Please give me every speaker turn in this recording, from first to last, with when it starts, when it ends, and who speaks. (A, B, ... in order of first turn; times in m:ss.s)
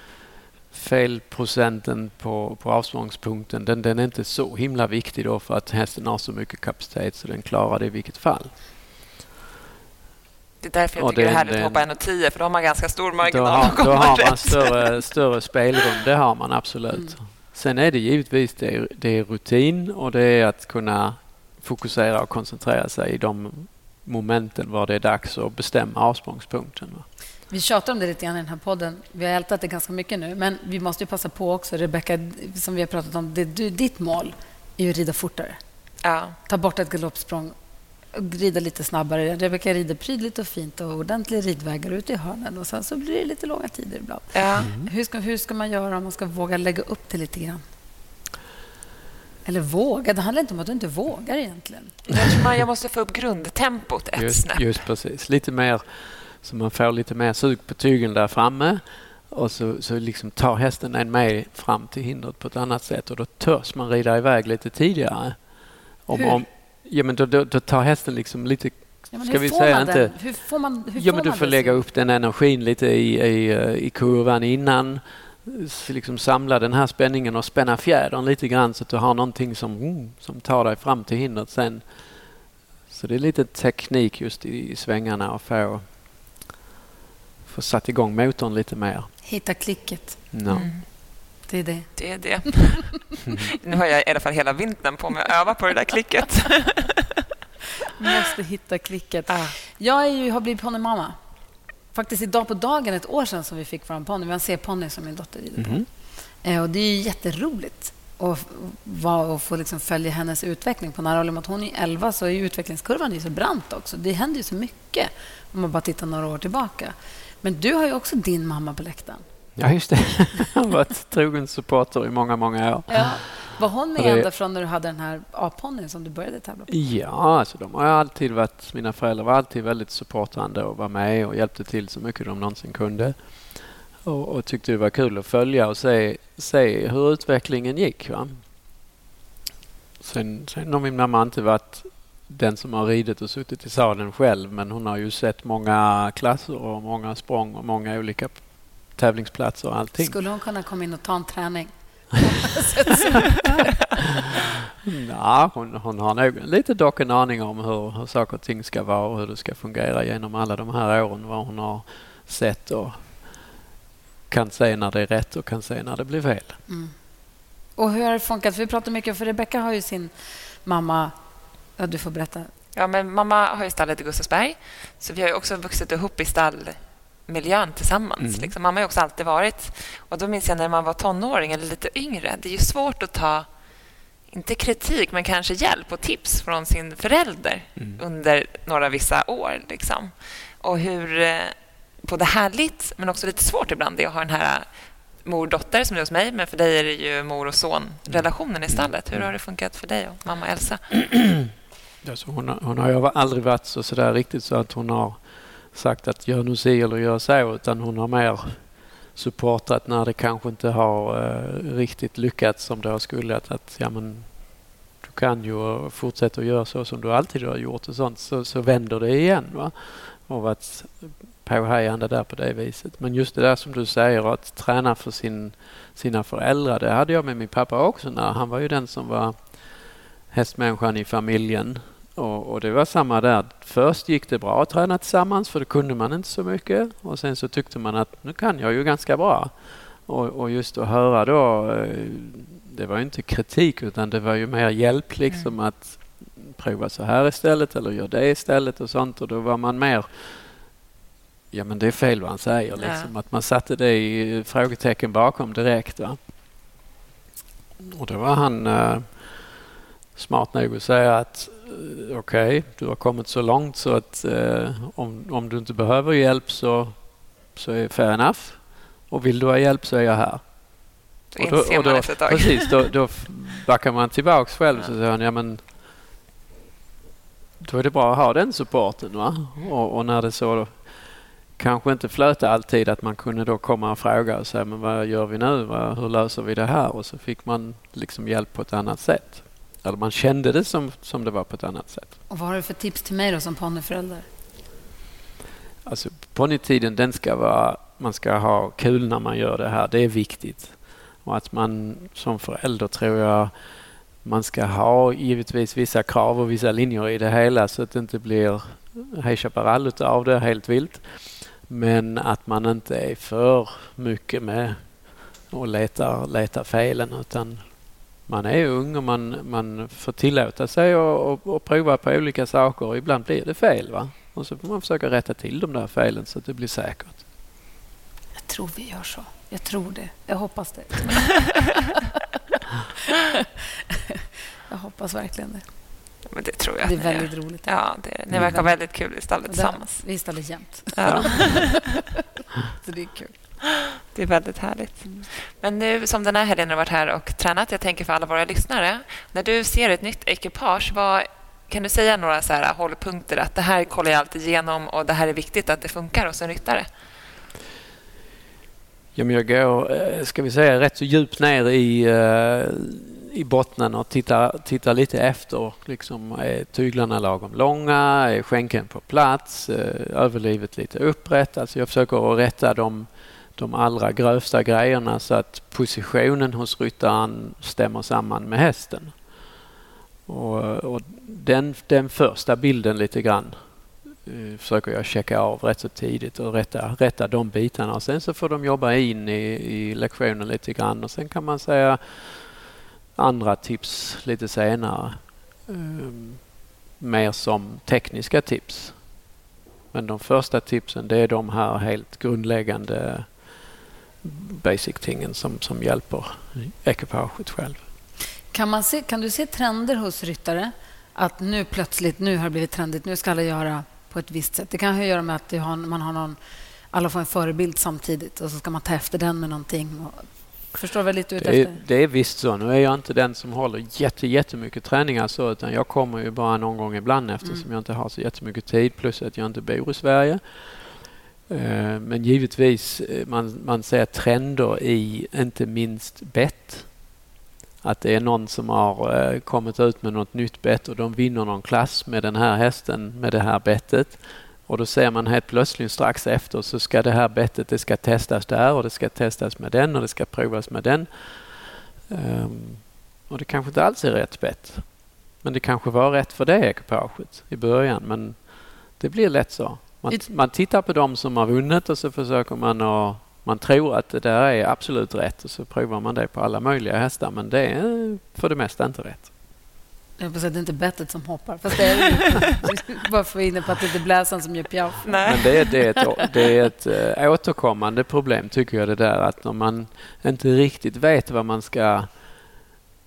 0:00.7-0:08.6 A
0:10.6-0:14.9 B
0:11.0-0:11.8 A
0:13.2-0:27.1 A
0:27.5-0:35.6 C
0:36.0-0:36.4 B
0:36.5-0:37.5 C
0:38.1-0:47.6 C
0:44.3-0:44.7 B
0:44.6-0:44.9 A
0:49.4-0:52.0 C
0:52.1-0:54.6 B
0:54.2-1:05.4 A
1:06.1-1:10.2 A
1:06.1-1:06.4 C
1:09.1-1:11.8 C
1:10.9-1:21.8 A
1:22.9-1:25.8 A
1:27.5-1:29.1 A
1:29.2-1:30.2 C
1:30.3-1:30.7 A
1:30.5-1:30.8 B
1:31.5-1:32.0 C
1:32.0-1:37.1 B
1:38.0-1:41.2 C
1:39.3-1:39.6 B
1:41.9-1:45.8 C
1:45.6-1:45.9 A
1:46.4-1:59.2 C
1:59.6-2:04.3 A
2:02.9-2:06.7 C
2:06.7-2:13.2 A
2:14.0-2:18.4 A
2:20.0-2:30.2 A
2:30.0-2:34.1 C
2:34.8-2:43.0 A
2:44.3-2:46.6 A
2:46.7-2:47.0 C
2:47.8-2:51.1 C
2:51.8-2:52.5 C
2:52.8-3:03.5 B
2:58.2-2:58.5 A
3:04.3-3:14.6 B
3:07.8-3:08.0 A
3:15.2-3:20.8 B
3:18.1-3:19.3 A
3:21.1-3:21.5 A
3:22.0-3:25.2 A
3:25.7-3:28.6 A
3:29.1-3:34.4 A
3:35.0-3:49.4 A
3:50.3-3:59.5 A
4:00.1-4:10.4 A
4:11.5-4:16.2 A
4:12.8-4:13.1 B
4:17.8-4:19.4 A
4:20.2-4:27.0 A
4:27.6-4:30.4 A
4:31.3-4:32.8 B
4:31.4-4:35.6 A
4:37.6-4:40.9 A
4:41.6-4:52.1 A
4:52.3-4:54.3 C
4:55.8-5:03.5 A
5:04.2-5:14.9 A
5:15.5-5:17.7 A
5:18.3-5:27.2 A
5:28.4-5:31.4 C
5:33.9-5:35.7 C
5:36.3-5:40.0 B
5:36.8-5:37.7 C
5:38.3-5:38.6 A
5:38.4-5:41.7 C
5:40.9-5:41.9 B
5:41.0-5:41.9 A
5:42.8-5:43.3 C
5:44.1-5:56.9 B
5:59.1-6:19.1 A
6:20.3-6:23.6 A
6:24.2-6:32.6 A
6:33.2-6:36.5 A
6:37.0-6:39.0 A
6:39.9-6:43.3 A
6:44.2-6:47.8 A
6:48.5-6:56.4 C
6:56.9-7:01.8 C
7:01.4-7:11.0 A
7:11.5-7:17.0 A
7:17.8-7:49.3 A
7:50.2-7:55.6 C
7:55.0-7:55.8 B
7:55.2-8:02.1 A